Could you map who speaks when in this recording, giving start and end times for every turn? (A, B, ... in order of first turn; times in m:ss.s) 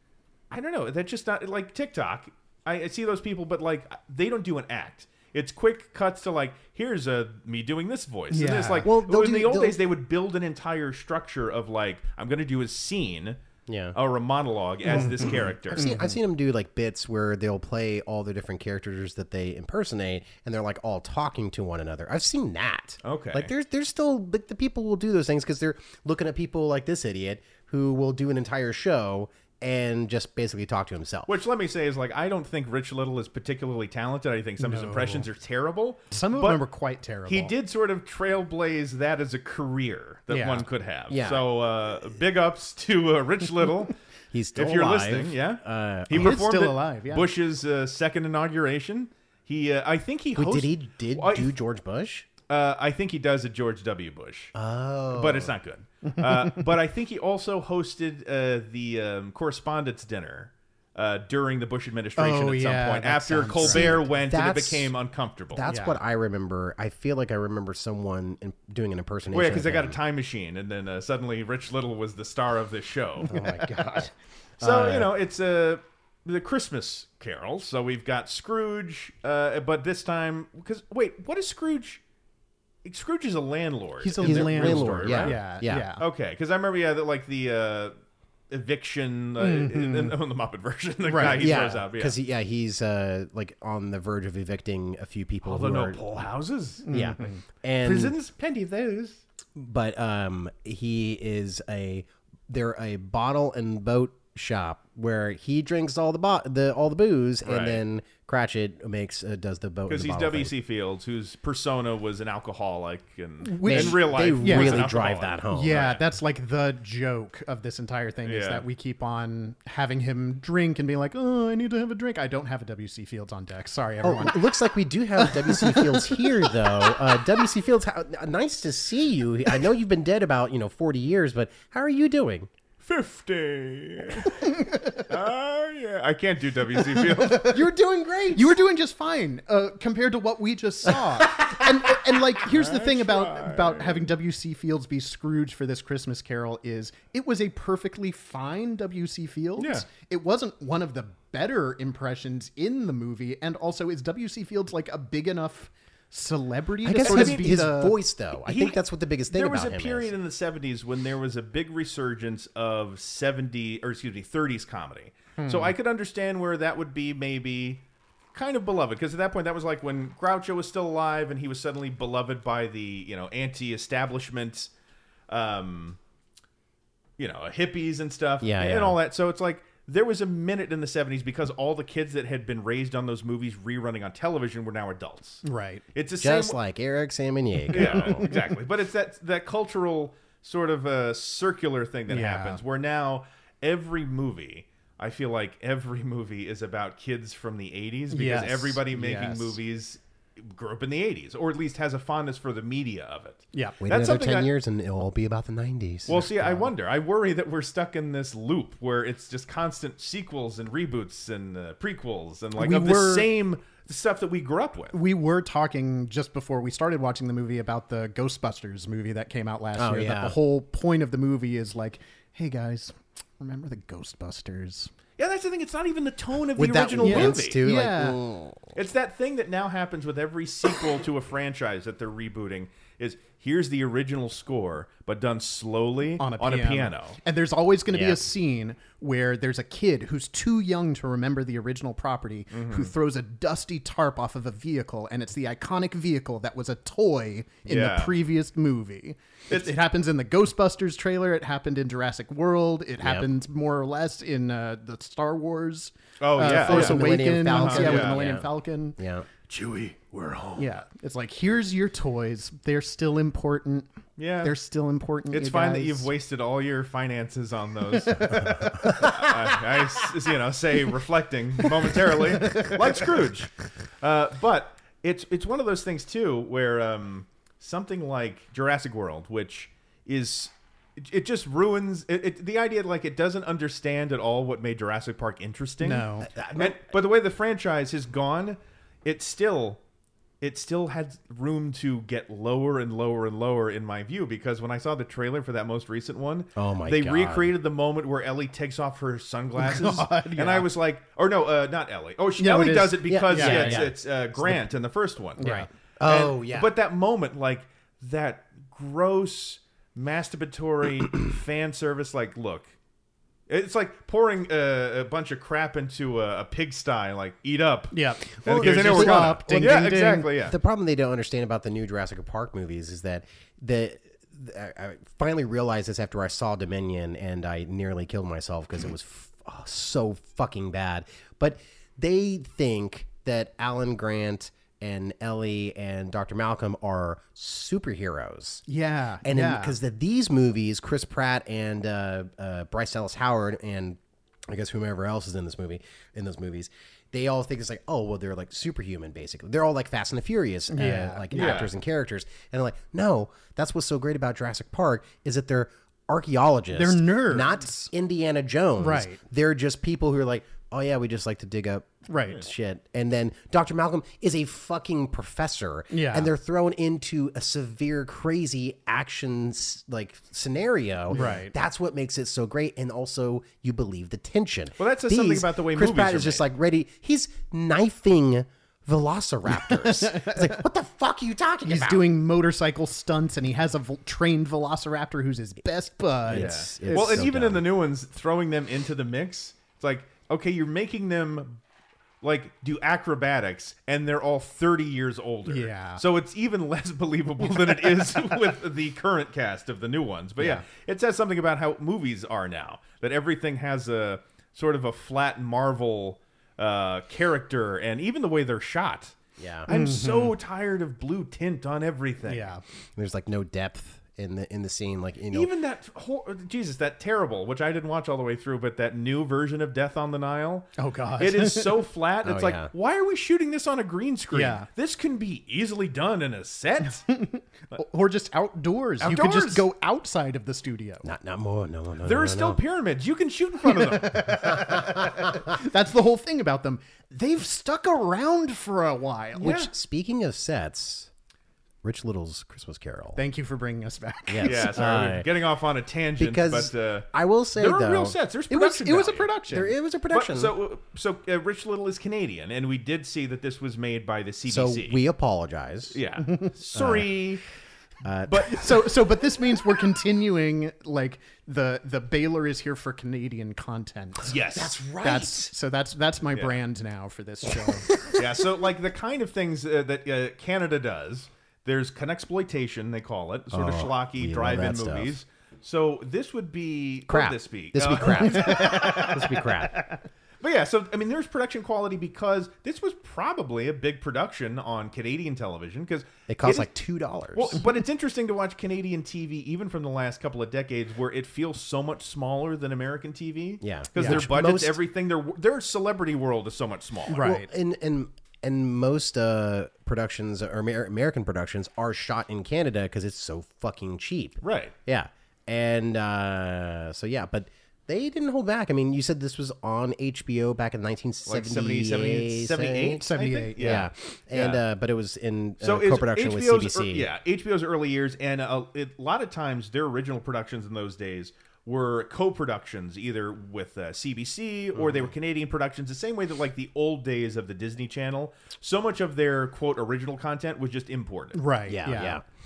0:00.5-0:13.4 A
0:08.3-0:08.9 B
0:08.8-0:09.8 C
0:13.7-0:14.0 C
0:14.0-0:16.0 A
0:14.9-0:16.2 B
0:15.0-0:31.3 C
0:23.0-0:23.5 A
0:31.3-0:36.6 A
0:34.6-0:35.3 B
0:36.1-0:37.5 B
0:37.3-0:43.9 A
0:40.3-0:40.6 B
0:41.1-0:41.5 C
0:44.3-0:46.4 C
0:44.6-0:51.6 A
0:46.1-0:47.3 B
0:50.4-0:52.3 C
0:52.5-0:54.5 A
0:54.5-0:55.5 C
0:55.1-1:05.6 A
0:56.1-0:56.6 B
1:02.2-1:04.0 B
1:03.6-1:04.9 C
1:05.5-1:10.0 C
1:05.7-1:06.0 B
1:09.3-1:13.3 A
1:13.2-1:14.1 C
1:13.3-1:14.1 B
1:14.6-1:22.0 A
1:14.6-1:15.0 C
1:22.8-1:25.5 A
1:24.0-1:26.0 B
1:24.2-1:25.9 C
1:26.0-1:28.0 A
1:28.5-1:32.2 A
1:29.4-1:30.2 B
1:31.0-1:31.5 B
1:31.3-1:36.0 C
1:35.4-1:36.9 A
1:36.8-1:37.4 B
1:36.9-1:38.2 C
1:37.8-1:39.2 A
1:39.6-1:50.5 C
1:47.4-1:47.8 A
1:49.9-1:56.0 A
1:53.4-1:54.9 B
1:53.6-1:55.9 C
1:55.5-2:04.5 B
1:58.2-1:58.6 A
2:04.0-2:12.5 C
2:05.2-2:07.0 B
2:12.8-2:17.6 A
2:14.4-2:14.8 B
2:17.3-2:18.6 C
2:18.3-2:38.0 B
2:22.4-2:24.1 A
2:29.6-2:29.9 A
2:36.8-2:40.1 C
2:37.0-2:37.6 A
2:38.4-2:47.8 A
2:45.4-2:45.7 B
2:48.3-2:54.7 A
2:55.3-2:56.0 A
2:57.2-3:05.4 A
2:58.4-2:59.0 C
3:05.4-3:05.8 B
3:06.0-3:06.6 A
3:06.2-3:08.3 C
3:07.7-3:08.4 B
3:07.7-3:24.5 A
3:12.1-3:12.6 B
3:18.1-3:19.6 B
3:23.5-3:23.8 B
3:23.8-3:26.7 C
3:26.1-3:35.0 A
3:32.6-3:33.3 B
3:34.9-3:44.9 B
3:39.8-3:40.4 C
3:45.2-3:47.6 A
3:46.6-3:48.7 C
3:47.0-3:48.2 B
3:48.8-3:57.2 A
3:56.2-4:19.0 B
3:57.9-3:58.2 C
4:02.5-4:02.9 A
4:07.7-4:08.2 A
4:13.0-4:13.3 C
4:16.2-4:18.2 A
4:16.4-4:19.3 C
4:19.5-4:20.7 A
4:20.6-4:23.9 B
4:24.2-4:24.6 A
4:24.4-4:26.1 B
4:25.3-4:49.8 A
4:28.0-4:29.1 B
4:28.8-4:29.1 C
4:32.1-4:32.8 B
4:45.8-4:46.3 B
4:46.2-4:46.8 C
4:50.4-5:12.7 A
4:56.6-4:57.5 C
4:59.6-5:00.7 B
5:02.4-5:03.9 B
5:03.1-5:04.6 C
5:05.4-5:05.7 B
5:05.4-5:06.7 C
5:13.5-5:20.6 A
5:17.9-5:20.3 B
5:18.4-5:38.6 C
5:38.7-5:39.8 B
5:39.2-6:22.1 C
5:50.7-5:51.6 B
5:51.3-5:51.7 A
5:56.7-5:57.9 B
5:58.8-5:59.2 B
6:02.1-6:02.4 B
6:05.9-6:06.3 B
6:11.1-6:11.5 B
6:14.8-6:16.5 A
6:19.6-6:20.6 B
6:21.6-6:27.3 B
6:26.3-6:27.7 C
6:26.3-6:31.6 A
6:32.2-6:52.5 A
6:35.5-6:36.0 B
6:49.4-6:49.7 C
6:49.7-6:50.3 B
6:52.3-6:52.6 B
6:53.0-6:55.5 C
6:55.3-7:07.1 A
7:00.8-7:01.8 B
7:02.2-7:02.7 C
7:04.3-7:04.7 B
7:07.1-7:11.1 B
7:09.0-7:09.6 A
7:11.0-7:12.6 C
7:12.0-7:14.5 A
7:13.7-7:19.6 B
7:19.4-7:19.7 A
7:19.4-7:21.1 C
7:21.8-7:23.2 C
7:23.2-7:24.8 B
7:24.3-7:25.3 C
7:24.4-7:29.3 A
7:26.2-7:28.2 C
7:28.5-7:29.7 B
7:29.4-7:30.6 C
7:30.1-7:35.0 A
7:34.5-7:36.0 C
7:35.9-7:37.4 A
7:36.7-7:37.2 C
7:38.0-7:38.6 C
7:38.3-7:38.7 A
7:38.5-7:44.4 B
7:44.2-7:44.8 A
7:44.5-7:45.5 C
7:45.0-7:47.9 B
7:48.0-7:59.2 A
7:53.5-7:55.2 C
7:57.1-7:59.8 C
7:58.2-7:59.9 B
8:00.4-8:06.7 A
8:06.3-8:07.6 C
8:07.3-8:17.2 A
8:13.6-8:14.8 C
8:17.1-8:17.5 B
8:17.1-8:33.0 C
8:24.4-8:24.7 A
8:31.3-8:34.6 A
8:33.0-8:33.8 B
8:33.6-8:37.1 C
8:35.6-8:51.4 A
8:51.4-8:52.2 B
8:51.7-8:52.2 C